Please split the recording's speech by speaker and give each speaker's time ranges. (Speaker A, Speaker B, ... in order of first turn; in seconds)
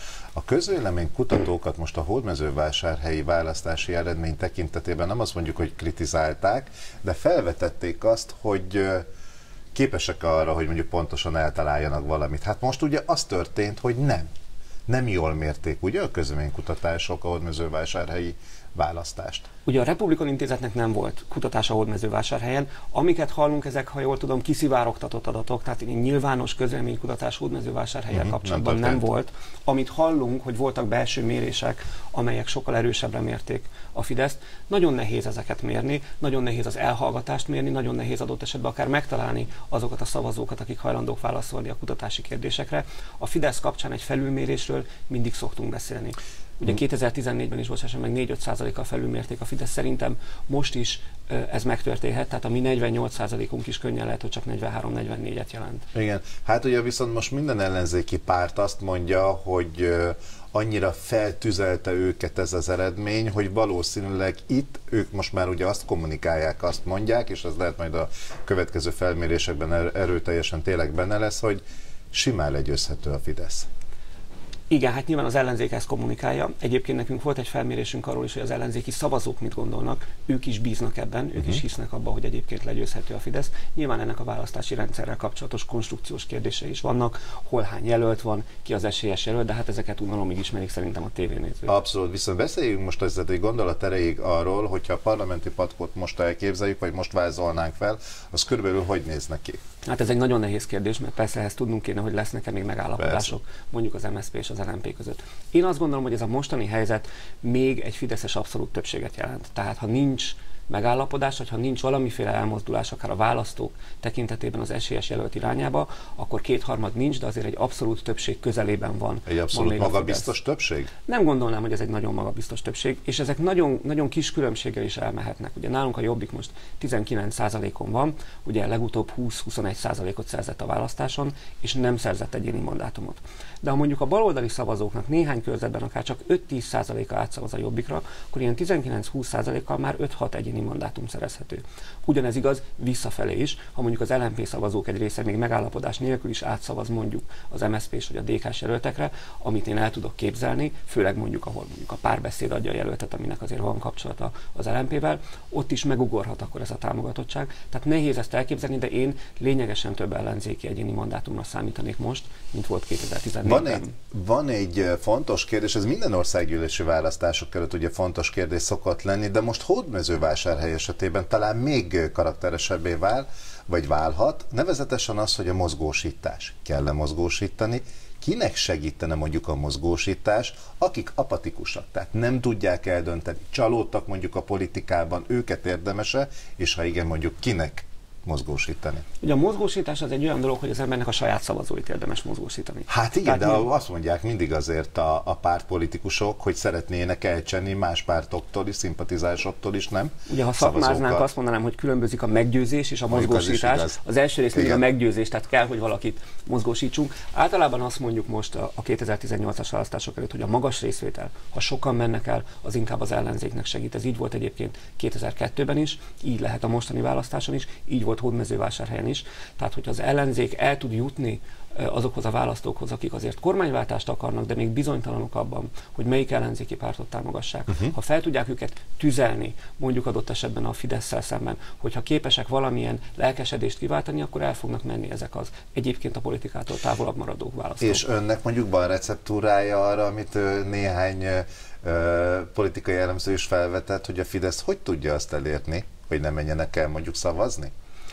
Speaker A: 0.3-9.0, 9.8-14.3, 14.9-19.5, 28.1-29.0, 55.9-71.6, 72.1-73.7, 91.7-99.6, 103.0-103.3, 119.2-120.9, 163.4-189.0, 192.9-201.2, 203.1-204.0, 204.5-204.8, 237.8-247.7
Speaker B: 19.7-55.8, 74.7-91.8, 99.8-120.3, 121.1-163.9, 189.2-193.7, 200.3-238.0